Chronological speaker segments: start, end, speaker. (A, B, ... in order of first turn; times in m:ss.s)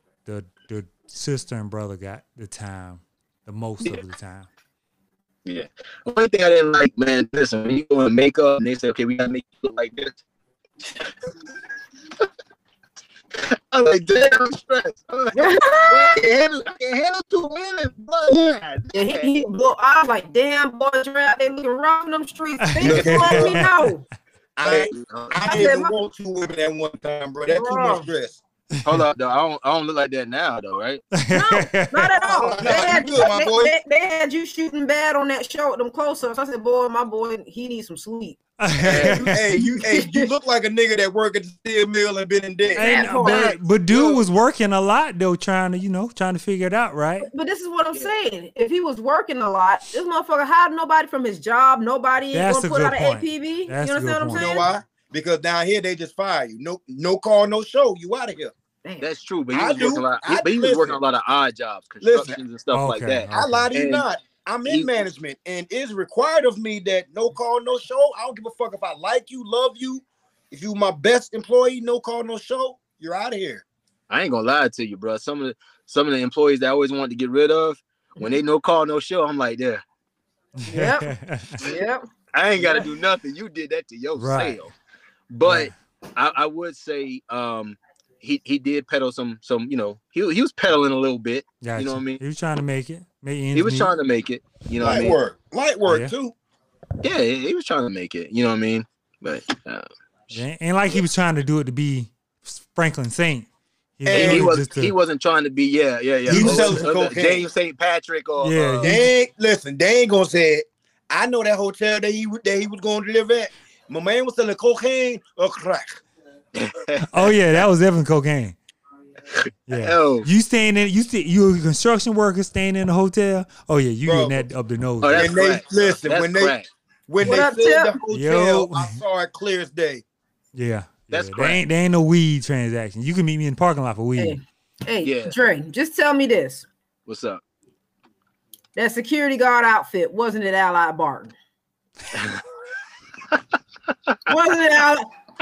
0:00.2-0:04.5 A
0:05.4-0:10.2 B
0:13.4-0:19.3 B
0:15.3-0:16.2 C
0:18.9-0:24.0 C
0:22.7-0:23.9 A
0:22.8-0:23.6 D
0:24.6-0:28.4 D
0:24.6-0:25.6 B
0:25.4-0:26.0 C
0:27.5-0:28.1 C
0:28.8-0:29.0 A
0:28.8-0:31.0 B
0:31.1-0:32.1 A
0:31.3-0:38.4 C
0:32.2-0:33.7 D
0:38.6-0:39.5 A
0:38.8-0:44.1 D
0:38.8-0:39.2 B
0:39.8-0:40.3 C
0:42.7-0:43.6 C
0:42.8-0:47.3 A
0:43.9-0:44.2 B
0:47.2-0:54.7 C
0:52.3-0:54.5 A
0:54.3-0:58.5 D
0:58.8-0:59.1 C
0:59.0-1:04.0 B
0:59.5-1:01.0 D
1:02.0-1:02.4 D
1:02.7-1:03.7 A
1:03.3-1:13.6 D
1:14.1-1:19.8 B
1:20.6-1:21.6 A
1:20.7-1:22.0 C
1:22.3-1:24.7 B
1:22.6-1:22.8 C
1:24.2-1:24.6 A
1:25.3-1:32.2 B
1:25.4-1:25.7 A
1:31.6-1:33.9 A
1:33.5-1:35.2 B
1:34.8-1:36.4 D
1:35.9-1:36.1 A
1:37.0-1:40.4 B
1:40.3-1:43.5 A
1:44.0-1:44.9 A
1:44.1-1:44.6 D
1:44.1-1:49.0 B
1:46.3-1:46.8 A
1:46.3-1:47.5 D
1:48.4-1:49.1 A
1:48.8-1:56.0 D
1:56.6-1:57.4 B
1:57.1-1:58.6 A
1:59.3-2:00.3 B
1:59.7-2:05.4 A
2:04.0-2:04.5 D
2:05.0-2:06.7 B
2:05.1-2:06.6 D
2:07.1-2:10.0 D
2:07.2-2:08.0 C
2:08.1-2:09.0 A
2:10.5-2:14.4 A
2:11.1-2:11.6 B
2:14.2-2:16.7 C
2:15.0-2:15.3 B
2:17.1-2:17.4 B
2:18.8-2:21.4 C
2:22.1-2:22.4 B
2:24.3-2:25.1 C